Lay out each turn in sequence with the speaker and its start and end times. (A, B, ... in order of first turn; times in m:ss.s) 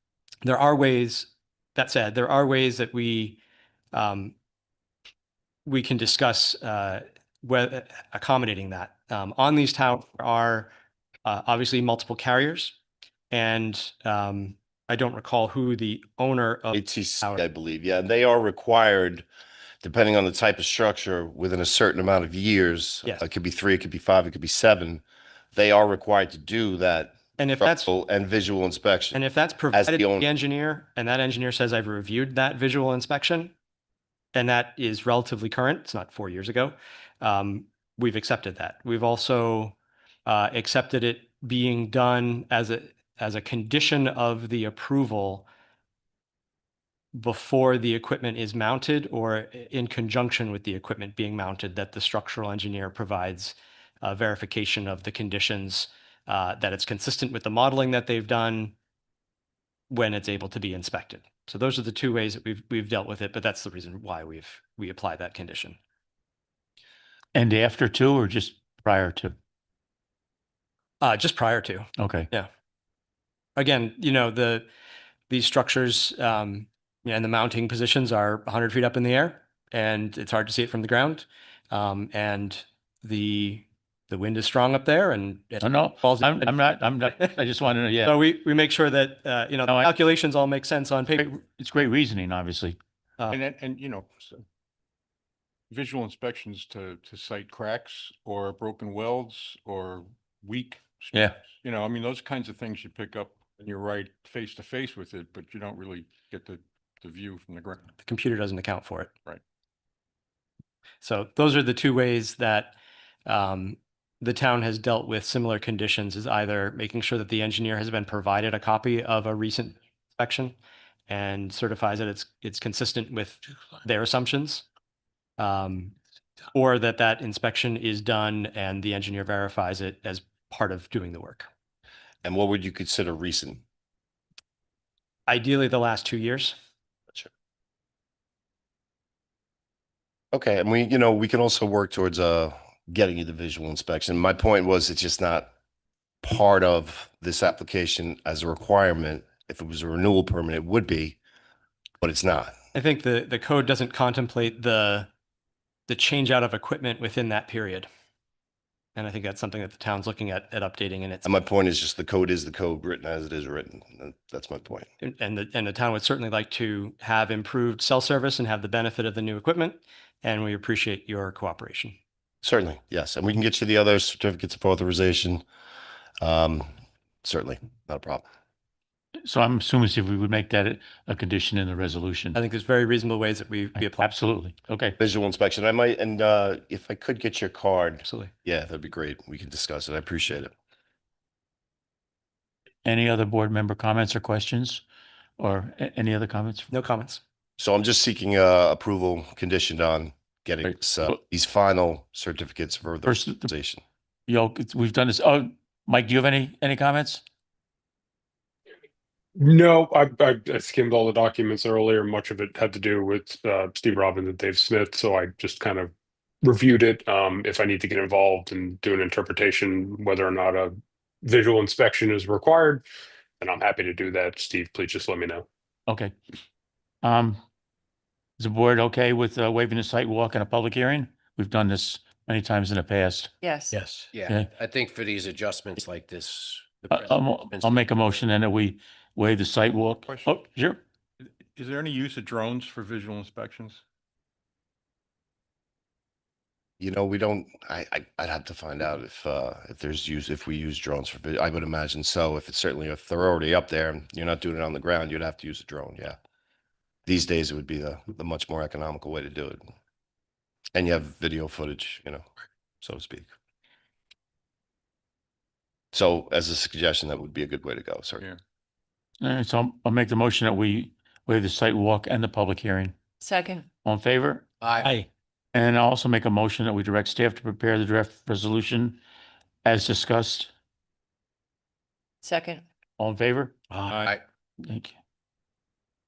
0:00.4-0:03.4 A
0:03.9-0:04.4 A
0:05.7-0:10.7 A
0:11.2-0:12.8 A
0:13.3-0:17.4 A
0:16.7-0:19.3 B
0:19.8-0:25.0 B
0:25.5-0:29.2 B
0:27.4-0:27.9 A
0:29.1-0:33.5 A
0:29.7-0:30.3 B
0:34.3-0:45.5 A
0:47.1-0:58.8 A
0:59.9-1:05.8 A
1:07.3-1:09.4 C
1:11.0-1:12.5 A
1:12.0-1:12.3 C
1:13.6-1:14.7 A
1:15.3-1:26.6 A
1:25.6-1:28.2 C
1:28.0-1:31.2 A
1:31.2-1:32.8 C
1:33.3-1:34.3 D
1:35.7-1:47.8 D
1:48.0-1:49.1 A
1:51.0-2:00.6 A
2:01.1-2:04.6 A
2:05.4-2:06.0 A
2:06.5-2:11.5 A
2:12.2-2:13.6 B
2:15.3-2:16.6 A
2:20.3-2:25.5 B
2:26.2-2:31.2 B
2:32.0-2:32.6 B
2:32.7-2:35.1 A
2:35.9-2:37.9 A
2:39.0-2:41.3 A
2:41.2-2:44.9 B
2:45.0-2:52.0 A
2:52.4-2:55.4 B
2:56.2-2:56.7 B
2:57.2-2:58.2 B
2:59.2-3:02.4 C
3:02.4-3:04.1 A
3:03.8-3:05.0 C
3:05.0-3:10.5 B
3:08.0-3:08.3 A
3:12.8-3:14.8 C
3:15.4-3:16.7 C
3:16.7-3:17.2 A
3:17.6-3:23.8 B
3:23.0-3:23.5 C
3:24.3-3:27.2 C
3:29.4-3:35.9 E
3:36.4-3:42.8 E
3:43.4-3:45.5 E
3:45.9-3:46.1 C
3:47.0-3:47.4 C
3:48.4-3:53.3 C
3:53.7-3:57.8 F
3:56.9-4:00.8 C
4:00.1-4:00.3 D
4:01.6-4:03.8 D
4:06.8-4:16.2 B
4:17.1-4:19.6 B
4:20.7-4:22.2 B
4:22.8-4:23.3 B
4:25.9-4:28.2 B
4:29.2-4:33.0 C
4:33.8-4:34.9 C
4:34.6-4:35.0 F
4:35.5-4:39.0 C
4:39.6-4:40.5 C
4:43.0-4:43.6 C
4:43.7-4:44.2 F
4:44.6-4:44.9 C